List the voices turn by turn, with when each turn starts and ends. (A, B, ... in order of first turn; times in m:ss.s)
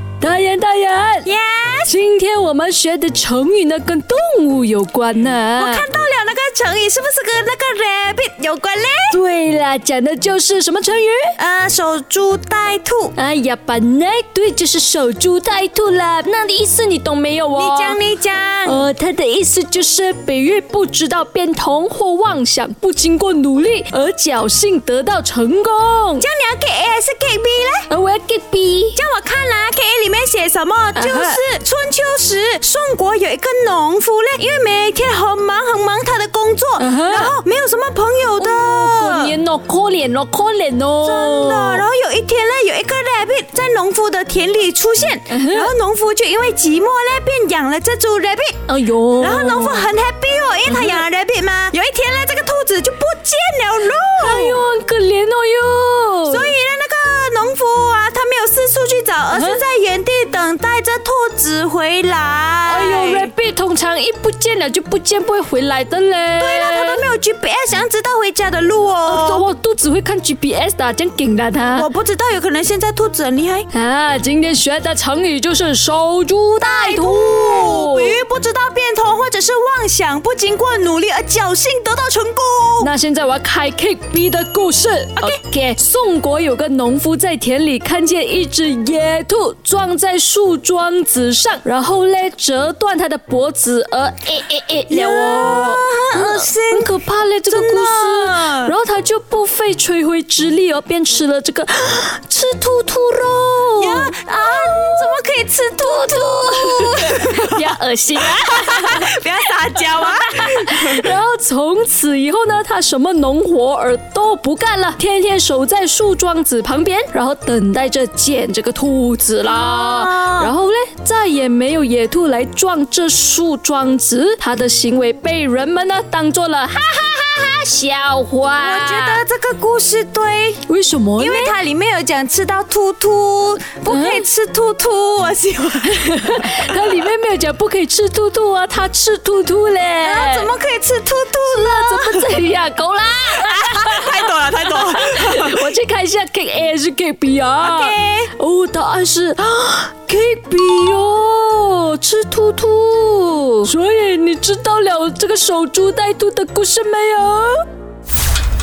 0:00.2-0:01.3 A
0:01.2-0:01.9 B
0:01.9-0:05.8 A
0:05.6-0:09.2 B
0:09.1-0:11.4 A
0:11.4-0:13.2 B
0:13.2-0:18.0 A
0:17.6-0:18.8 B
0:18.6-0:26.3 A
0:26.2-0:27.9 B
0:27.9-0:29.0 A
0:29.0-0:39.3 B
0:31.0-0:31.4 A
0:36.8-0:37.4 A
0:38.4-0:41.9 A
0:41.0-0:48.6 B
0:45.3-0:45.7 A
0:48.7-0:49.9 A
0:49.2-0:54.6 B
0:50.7-0:51.0 A
0:54.2-0:56.5 A
0:56.3-1:03.3 B
0:59.3-0:59.6 A
1:02.7-1:07.0 A
1:06.4-1:09.4 B
1:09.0-1:11.9 A
1:11.7-1:13.7 B
1:13.7-1:18.2 A
1:16.6-1:22.9 B
1:22.8-1:45.2 A
1:34.9-1:36.9 B
1:37.5-1:38.7 B
1:43.8-1:47.6 B
1:45.8-1:49.1 A
1:48.2-1:51.0 B
1:49.9-2:09.2 A
1:59.4-2:00.5 B
2:08.6-2:10.6 B
2:10.7-2:11.6 A
2:11.2-2:16.2 B
2:13.9-2:14.2 A
2:15.9-2:20.5 A
2:20.0-2:22.3 B
2:21.4-2:37.6 A
2:23.4-2:25.6 B
2:27.6-2:28.3 B